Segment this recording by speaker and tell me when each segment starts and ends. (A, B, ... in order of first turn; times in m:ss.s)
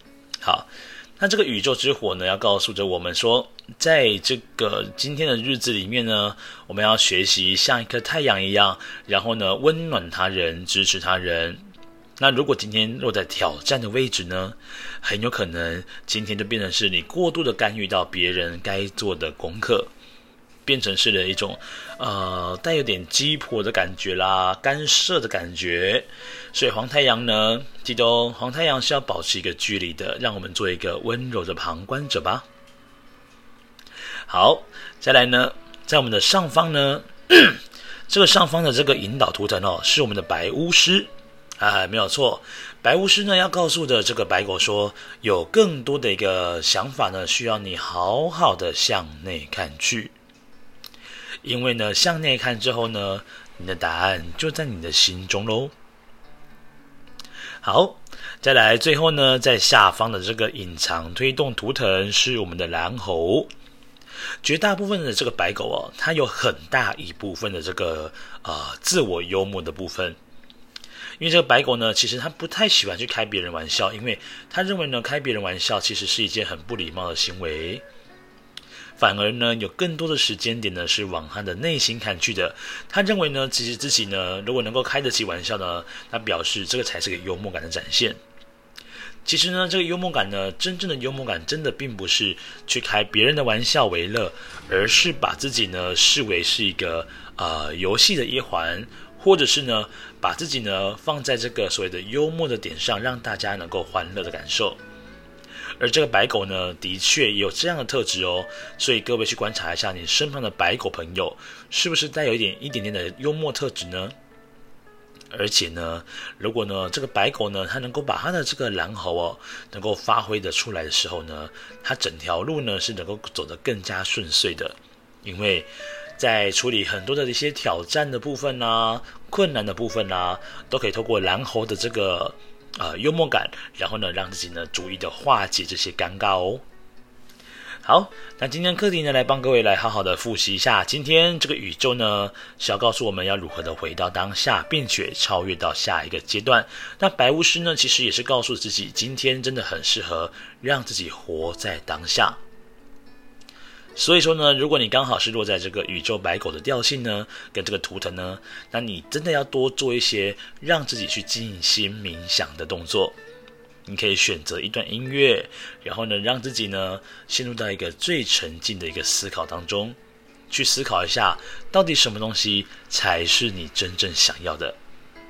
0:00.4-0:11.6 A
0:12.2-0:19.9 A
0:20.6-0:32.4 A
0:34.3-0:50.1 A
0:51.4-0:55.7 A
0:57.6-1:03.5 A
1:04.4-1:10.2 A
1:11.2-1:17.8 A
1:19.0-1:28.2 A
1:29.2-1:44.8 A
1:45.8-1:54.2 A
1:55.3-2:16.6 A
2:17.8-2:32.4 A
2:34.0-2:43.2 A
2:43.9-2:50.0 A
2:50.5-2:54.8 A